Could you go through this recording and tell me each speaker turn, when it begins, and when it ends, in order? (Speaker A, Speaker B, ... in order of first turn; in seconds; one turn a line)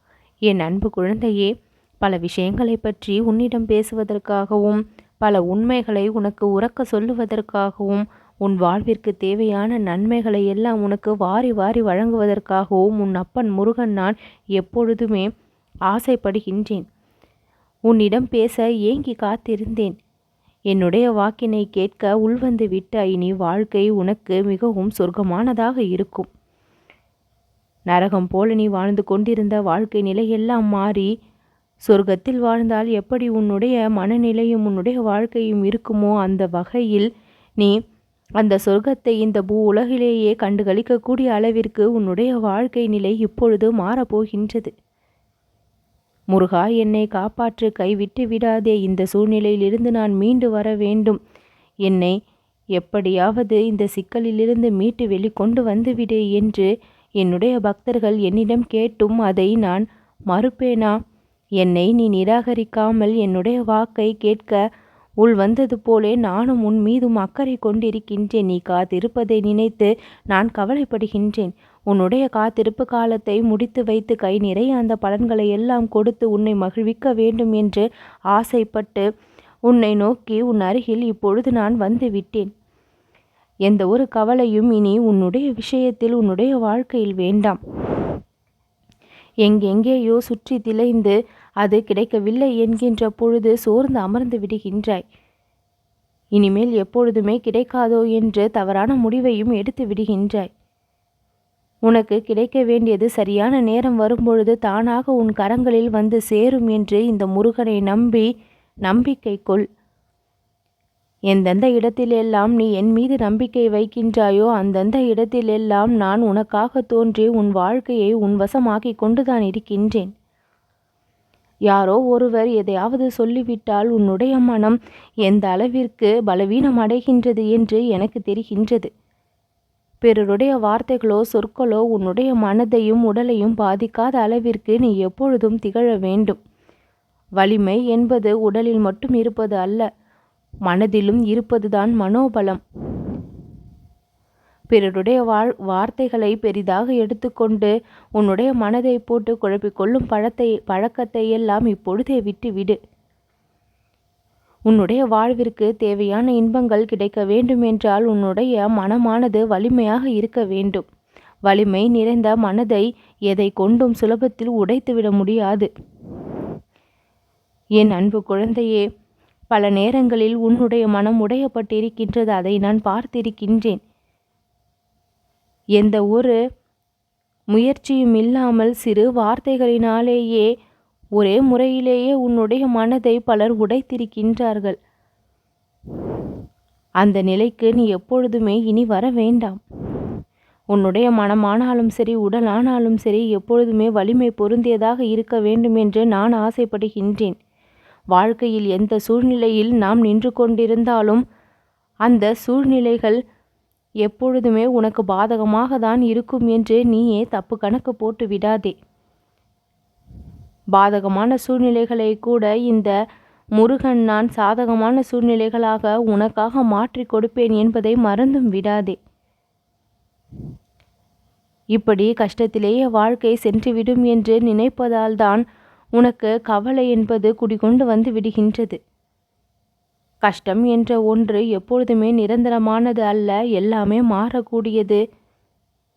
Speaker A: 0.5-15.3
Speaker A: 15.9-16.9
Speaker A: 17.9-19.9
Speaker A: 20.7-26.3
Speaker A: 27.9-31.1
Speaker A: 31.9-37.1
Speaker A: 38.4-44.7
Speaker A: 46.3-51.2
Speaker A: 51.9-52.1
Speaker A: 52.8-56.7
Speaker A: 57.2-60.9
Speaker A: 61.6-64.6
Speaker A: 65.2-79.0
Speaker A: 79.7-82.5
Speaker A: 83.7-87.6
Speaker A: 89.5-95.0
Speaker A: 96.4-100.5
Speaker A: 101.9-108.3
Speaker A: 108.8-109.6
Speaker A: 111.3-120.1
Speaker A: 121.7-128.9
Speaker A: 130.0-136.4
Speaker A: 137.4-139.9
Speaker A: 140.7-142.6
Speaker A: 144.7-152.8
Speaker A: 154.7-160.8
Speaker A: 161.5-165.7
Speaker A: 167.8-168.8
Speaker A: 169.5-173.8
Speaker A: 175.8-176.4
Speaker A: 177.5-180.5
Speaker A: 181.2-184.8
Speaker A: 187.0-189.6
Speaker A: 190.7-197.3
Speaker A: 198.1-201.2
Speaker A: 202.1-203.2
Speaker A: 204.0-208.7
Speaker A: 210.7-212.9
Speaker A: 213.6-219.0
Speaker A: 221.8-225.4
Speaker A: 226.0-228.8
Speaker A: 230.2-235.0